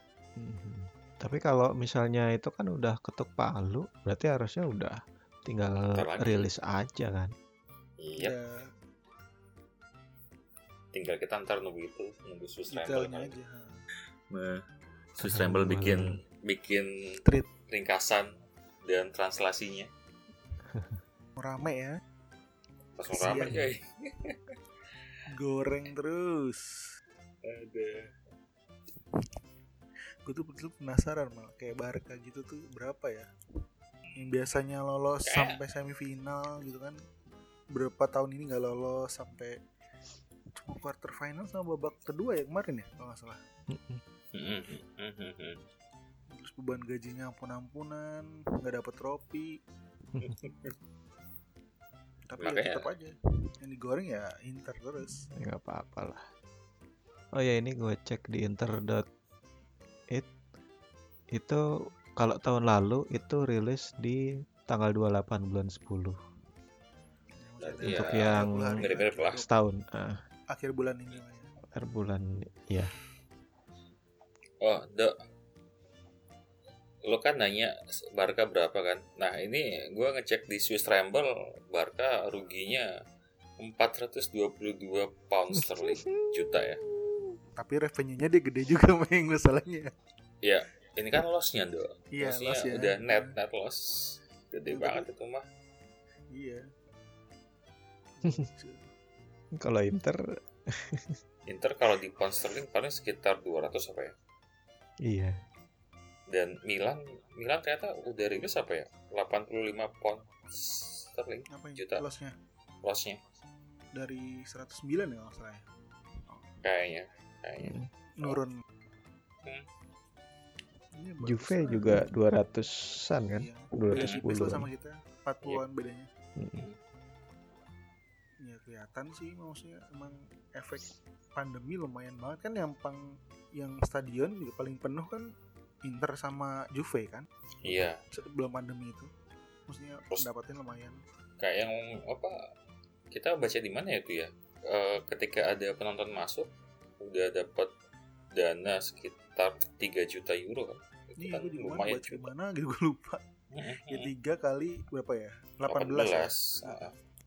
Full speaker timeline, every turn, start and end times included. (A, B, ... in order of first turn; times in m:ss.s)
0:00.4-0:07.3 A
0:05.9-0:06.5 B
0:08.0-0:08.4 B
0:08.2-0:08.7 C
0:10.9-0:13.4 B
0:12.7-0:13.8 C
0:14.3-0:14.6 B
0:15.2-0:19.9 B
0:15.2-0:16.1 A
0:20.7-0:21.0 A
0:21.4-0:22.0 C
0:23.0-0:24.4 B
0:23.1-0:23.5 C
0:23.3-0:23.7 A
0:25.3-0:26.9 C
0:27.4-0:28.1 B
0:30.3-0:33.3 C
0:34.2-0:37.0 C
0:35.3-0:35.6 B
0:37.7-0:39.6 C
0:40.6-0:43.4 C
0:43.7-0:44.0 A
0:44.3-0:45.6 B
0:46.3-0:49.6 C
0:50.2-0:50.7 B
0:52.3-0:55.2 C
0:52.4-0:52.9 B
0:55.3-0:56.2 A
0:57.4-0:59.0 A
1:01.3-1:01.6 A
1:02.2-1:06.2 A
1:07.4-1:09.5 C
1:07.6-1:09.4 B
1:07.8-1:08.8 A
1:09.4-1:10.2 A
1:10.5-1:11.5 C
1:11.7-1:12.9 A
1:14.6-1:15.1 B
1:17.0-1:22.9 B
1:23.6-1:26.8 B
1:25.5-1:26.4 A
1:27.6-1:29.9 C
1:30.4-1:35.4 B
1:32.1-1:33.4 C
1:34.7-1:35.1 C
1:36.3-1:36.6 C
1:38.2-1:38.9 C
1:39.6-1:41.2 A
1:41.5-1:44.2 B
1:45.0-1:45.4 A
1:46.3-1:52.0 B
1:51.5-1:52.3 C
1:52.8-1:53.2 B
1:54.0-1:55.7 C
1:56.6-1:58.4 B
1:57.6-1:57.9 A
1:58.2-1:58.6 C
2:01.0-2:02.0 C
2:01.2-2:04.7 A
2:03.4-2:06.1 C
2:04.0-2:04.2 B
2:06.4-2:06.7 A
2:08.4-2:15.3 C
2:15.8-2:17.3 C
2:17.6-2:18.0 B
2:18.1-2:19.1 C
2:19.7-2:21.0 C
2:21.4-2:22.4 B
2:23.1-2:27.7 B
2:28.4-2:32.3 B
2:31.2-2:33.2 C
2:33.5-2:34.1 B
2:33.9-2:36.9 C
2:35.7-2:36.9 B